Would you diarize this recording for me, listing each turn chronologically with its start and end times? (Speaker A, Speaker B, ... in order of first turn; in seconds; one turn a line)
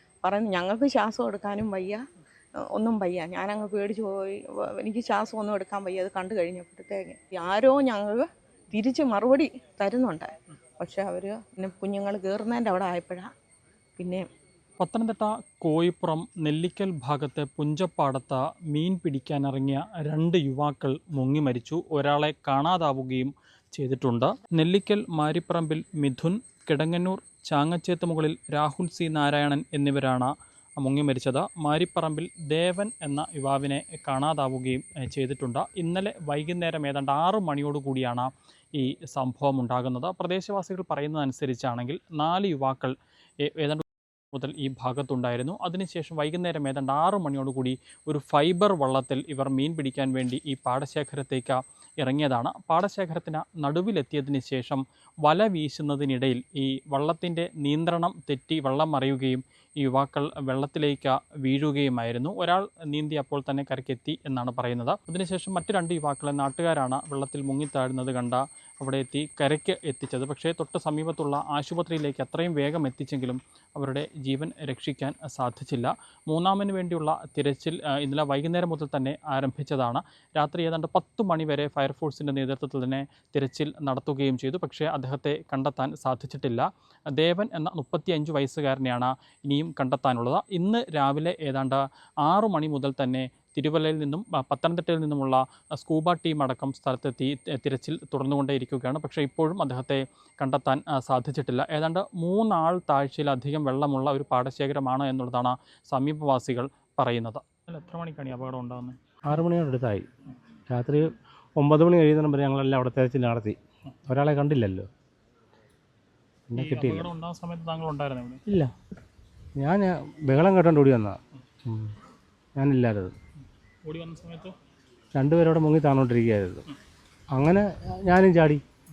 Speaker A: 0.2-2.0
Speaker A: 2.7-13.3
Speaker A: 14.0-14.2
Speaker B: 14.8-109.0
Speaker C: 109.3-110.1
Speaker C: 110.7-114.9
Speaker C: 116.5-117.1
Speaker B: 116.6-118.4
Speaker C: 118.5-118.7
Speaker C: 119.6-122.0
Speaker C: 122.6-123.2
Speaker B: 123.8-124.5
Speaker C: 125.2-126.7
Speaker C: 127.3-128.6